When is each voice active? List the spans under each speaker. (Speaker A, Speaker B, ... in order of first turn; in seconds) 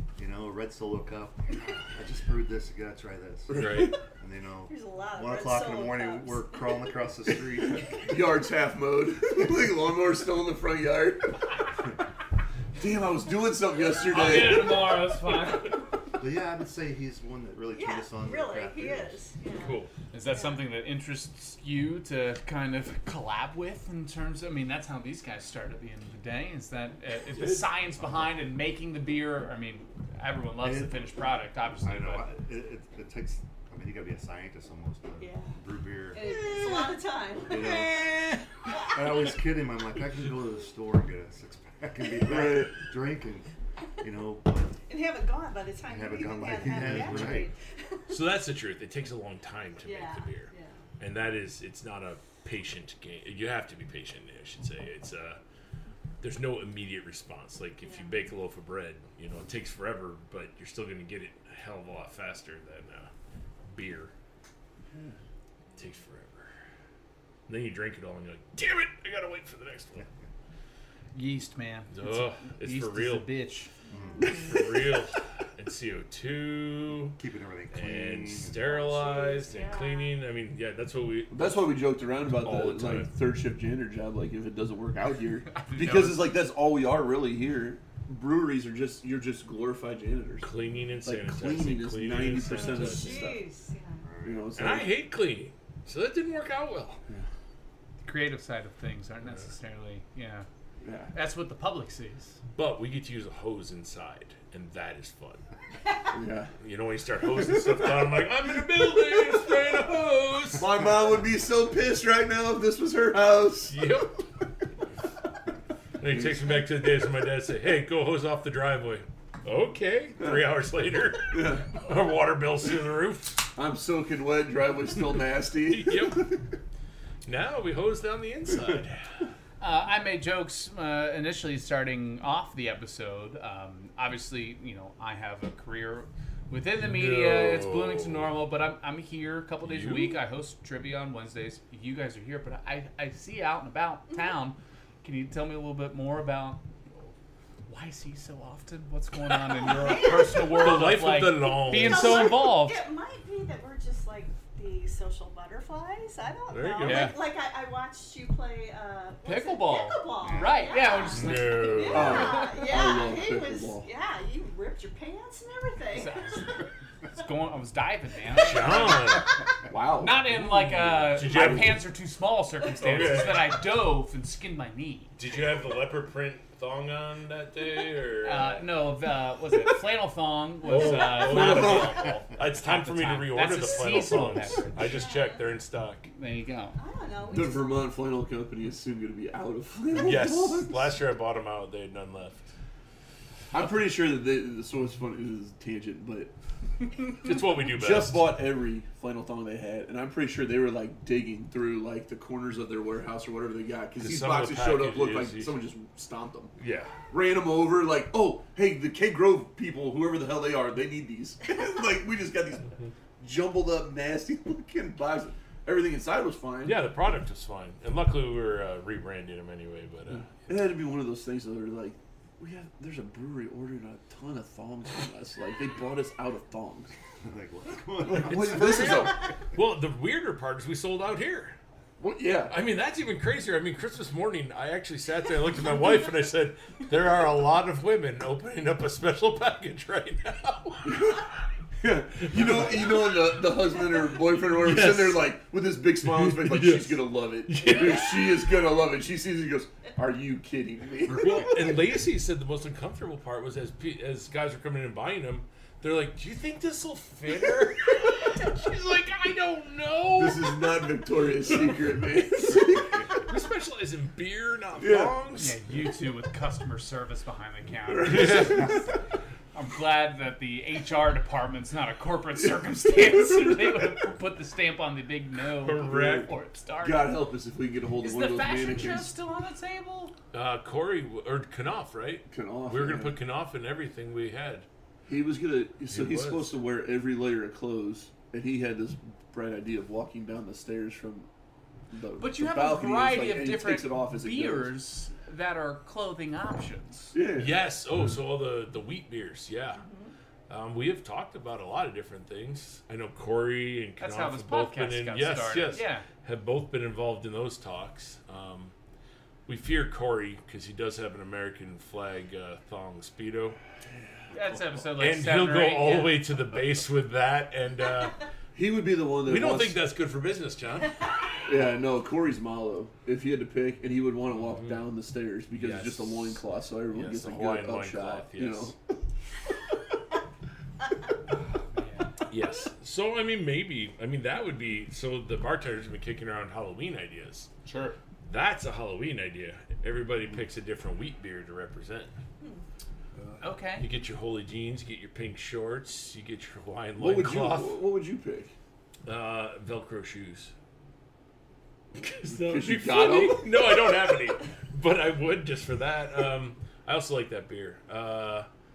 Speaker A: 0.2-8.1, 16.2-19.2, 30.6-31.1, 31.8-36.5, 37.5-38.1, 38.9-43.5, 44.0-44.8, 45.9-47.5, 73.9-74.4, 77.2-79.0, 94.0-94.5, 160.2-160.9, 227.2-229.0
Speaker B: 3.5-4.0, 8.0-11.4, 12.8-15.0, 42.2-42.8, 74.2-74.7, 81.3-90.5, 91.0-93.5, 94.2-94.9, 100.8-101.1, 106.1-106.5, 110.5-113.9, 116.0-116.6, 120.2-120.5, 121.3-121.8, 123.5-126.5, 161.9-163.9, 169.7-170.3, 171.1-171.8, 180.8-182.1, 187.3-190.9, 193.5-196.3, 197.2-206.5, 207.1-216.9, 220.1-226.9, 228.0-229.3, 232.0-232.6, 240.8-241.3, 241.8-251.7, 260.1-263.2, 264.8-265.2, 267.9-268.8, 273.0-273.3, 275.8-276.3, 276.8-279.1, 282.3-283.2, 285.1-291.3, 291.9-294.8, 297.1-297.6, 318.6-319.8, 321.5-328.8, 347.0-348.5, 352.2-353.9
Speaker C: 3.5-3.9, 19.6-19.9, 27.3-28.3, 46.8-47.4, 48.1-55.4, 56.2-63.1, 63.7-64.1, 65.8-66.5, 67.5-70.1, 71.9-73.3, 74.3-77.2, 77.7-83.1, 90.4-93.3, 94.6-97.0, 102.5-105.4, 106.6-110.7, 113.7-114.2, 116.0-123.5, 125.7-126.3, 127.2-129.0, 136.8-138.3, 139.6-140.2, 150.3-152.5, 156.5-157.2, 161.1-162.5, 168.3-169.3, 170.2-171.8, 172.8-173.6, 175.2-178.6, 180.6-186.1, 189.9-192.5, 197.2-198.3, 204.0-205.5, 206.6-207.0, 216.6-220.6, 228.2-231.6, 232.5-241.2, 242.2-243.3, 244.4-245.4, 246.0-248.3, 251.1-260.9, 261.5-261.8, 263.2-265.6, 268.1-268.8, 275.6-276.3, 280.3-284.7, 285.9-286.6, 297.4-299.8, 300.5-308.7, 309.5-313.6, 314.9-318.2, 319.2-321.1, 324.4-324.9, 325.6-328.7, 332.3-337.5, 338.3-342.1, 343.8-347.8, 349.1-350.5, 352.0-358.5
Speaker D: 4.7-6.6, 17.7-20.6, 35.2-35.6, 36.1-38.9, 44.9-48.0, 49.8-50.8, 57.8-58.2, 73.9-74.5, 78.8-80.2, 92.5-94.1, 149.6-166.5, 184.9-185.5, 186.8-187.9, 299.8-300.1
Speaker E: 14.1-15.8, 20.1-32.3, 71.1-73.7, 85.5-86.2, 98.0-100.5, 101.1-102.4, 129.6-146.6, 147.7-152.8, 156.8-157.2, 159.2-162.3, 165.9-169.2, 170.0-175.1, 178.2-185.0, 186.1-186.8, 265.4-268.9, 269.5-277.2, 278.0-280.1, 292.2-297.2, 304.0-306.1, 314.3-316.2, 331.7-332.1, 337.7-337.9, 343.4-343.9